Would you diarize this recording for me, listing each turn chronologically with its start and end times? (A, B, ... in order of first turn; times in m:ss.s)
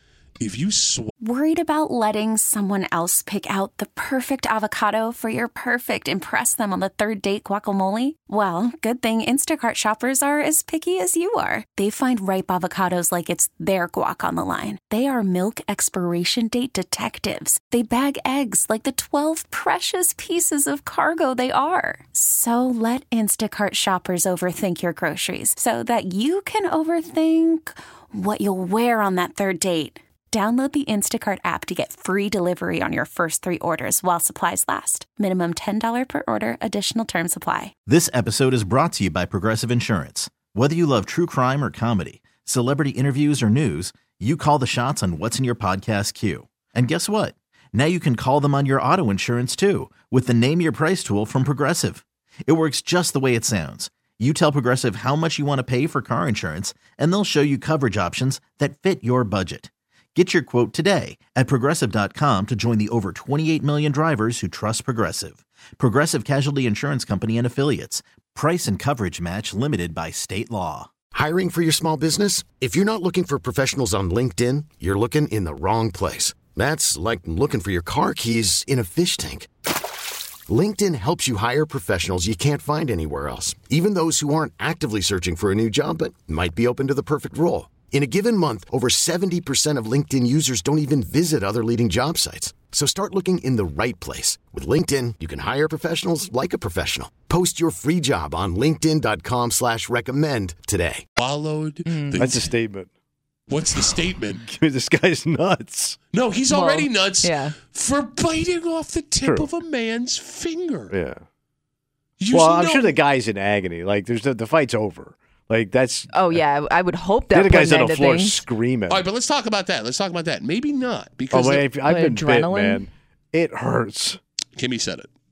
0:00.4-0:01.1 A
0:01.2-0:37.7 B
0:37.9-1:10.9 C
1:11.1-1:19.5 D
1:20.5-1:41.0 D
1:41.2-1:42.5 A
1:41.9-1:42.2 E
1:42.2-1:42.9 F
1:43.5-1:44.4 A
1:44.4-1:46.0 F
1:46.1-1:50.9 A
1:46.5-1:47.6 E
1:49.2-1:49.5 F
1:50.9-1:51.2 F
1:52.2-1:52.9 A
1:52.3-1:56.4 F
1:56.1-1:58.4 E
1:57.3-1:59.0 F
1:58.9-2:01.7 A
2:01.3-2:04.2 F
2:01.8-2:02.9 E
2:04.6-2:05.1 A